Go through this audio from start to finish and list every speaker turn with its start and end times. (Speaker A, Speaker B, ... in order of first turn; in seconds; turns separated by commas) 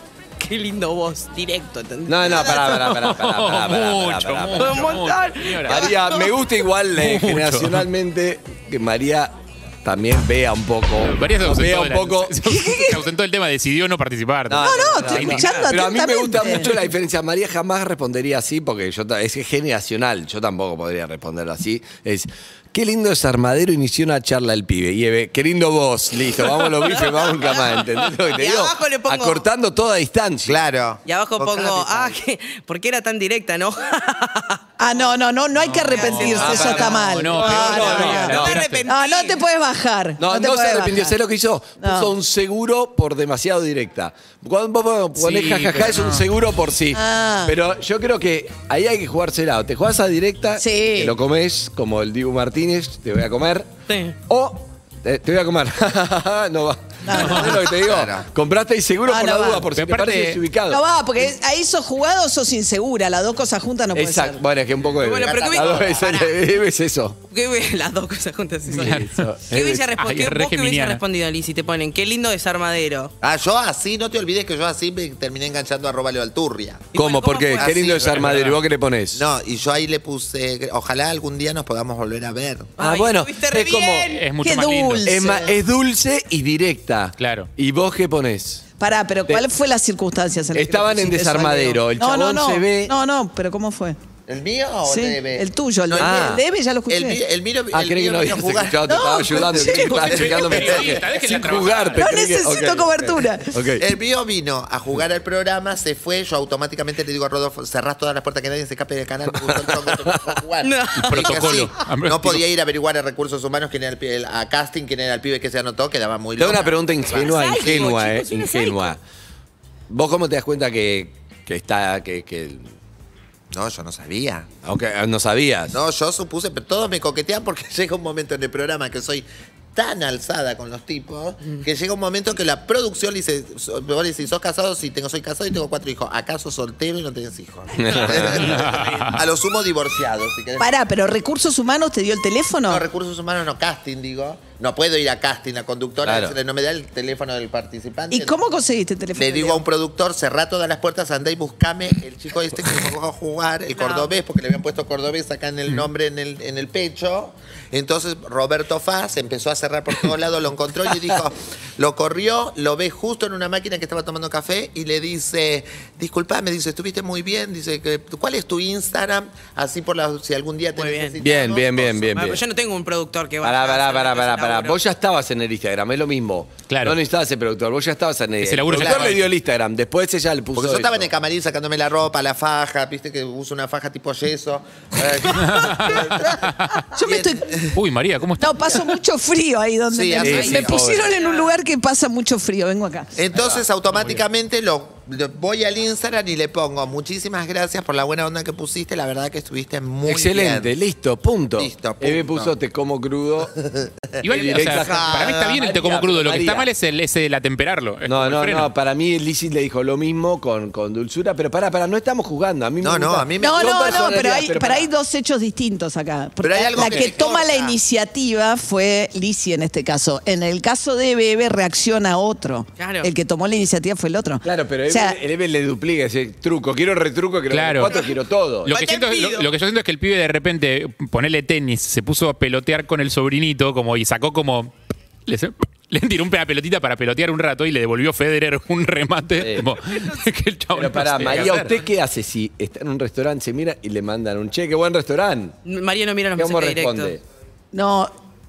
Speaker A: 0.4-2.9, Speaker B: 2.1-4.9, Speaker C: 2.8-5.9, Speaker A: 4.6-6.3, Speaker B: 5.6-12.4, Speaker C: 7.0-7.8, Speaker C: 11.0-15.4, Speaker D: 12.4-13.0, Speaker B: 14.5-30.6, Speaker D: 14.5-16.9, Speaker A: 14.9-15.8, Speaker A: 26.6-29.4, Speaker E: 30.4-32.1, Speaker A: 31.1-34.6, Speaker D: 34.8-41.2, Speaker C: 35.6-38.9, Speaker A: 35.7-39.4, Speaker B: 36.4-38.6, Speaker B: 40.2-53.7, Speaker D: 41.8-42.1, Speaker C: 45.2-46.2, Speaker D: 46.9-47.6, Speaker D: 50.6-51.1, Speaker A: 53.9-54.1, Speaker B: 54.3-60.8, Speaker D: 57.1-57.7, Speaker C: 57.1-57.5, Speaker E: 57.8-58.3, Speaker D: 59.0-59.7, Speaker C: 59.7-60.4, Speaker D: 60.7-64.4, Speaker B: 63.9-67.2, Speaker A: 65.0-66.4, Speaker E: 65.2-66.2, Speaker A: 67.3-73.1, Speaker C: 68.7-69.2, Speaker B: 68.7-69.8, Speaker C: 70.0-71.0, Speaker E: 73.2-76.9, Speaker A: 76.9-77.9, Speaker B: 76.9-79.2, Speaker E: 77.5-78.5, Speaker C: 78.2-78.5, Speaker E: 79.1-82.7, Speaker A: 82.8-84.2, Speaker B: 82.8-84.1, Speaker C: 84.1-85.1, Speaker D: 84.4-85.6, Speaker B: 85.0-88.6, Speaker C: 87.2-87.5, Speaker D: 88.8-94.0, Speaker B: 90.5-92.9, Speaker E: 94.3-101.2, Speaker D: 94.8-97.2, Speaker B: 96.0-96.4, Speaker B: 97.7-103.8, Speaker D: 98.8-100.7, Speaker C: 99.9-102.0, Speaker D: 102.0-103.6, Speaker E: 103.8-117.8, Speaker B: 109.3-110.3, Speaker A: 110.6-111.4, Speaker C: 111.0-112.4, Speaker B: 116.4-119.0, Speaker A: 117.2-118.9, Speaker B: 119.9-122.7, Speaker E: 123.5-124.5, Speaker B: 124.6-125.8, Speaker E: 125.7-140.7, Speaker B: 137.7-138.6, Speaker C: 138.3-139.2, Speaker A: 138.6-139.2, Speaker D: 140.6-142.8, Speaker E: 142.7-148.4, Speaker B: 146.0-146.3, Speaker D: 148.1-149.6, Speaker E: 149.2-172.2, Speaker A: 153.7-154.2, Speaker A: 170.7-171.2, Speaker B: 171.2-172.4, Speaker A: 172.1-174.8, Speaker B: 173.4-181.1, Speaker C: 176.7-177.0, Speaker C: 178.4-179.2, Speaker E: 178.7-179.2, Speaker E: 180.6-186.3, Speaker C: 185.4-186.6, Speaker D: 185.7-187.6, Speaker E: 187.0-187.8, Speaker C: 187.7-188.6, Speaker D: 188.4-193.1, Speaker E: 189.9-191.0, Speaker B: 190.2-191.1, Speaker A: 190.2-191.6, Speaker E: 193.2-200.7, Speaker B: 193.3-193.6, Speaker C: 193.9-194.2, Speaker B: 200.0-203.5, Speaker E: 201.6-202.5, Speaker E: 203.6-205.5, Speaker C: 204.2-208.7, Speaker B: 204.3-206.7, Speaker B: 208.1-214.9, Speaker E: 212.8-214.2, Speaker D: 213.4-225.2, Speaker E: 216.4-217.8, Speaker A: 222.8-223.1, Speaker B: 224.4-228.8, Speaker C: 227.5-228.0, Speaker C: 228.6-234.7, Speaker A: 228.7-229.5, Speaker C: 235.2-241.7, Speaker B: 239.4-239.7, Speaker B: 240.7-245.5, Speaker A: 241.4-241.8, Speaker A: 245.6-247.1, Speaker B: 246.3-247.2, Speaker D: 247.7-248.1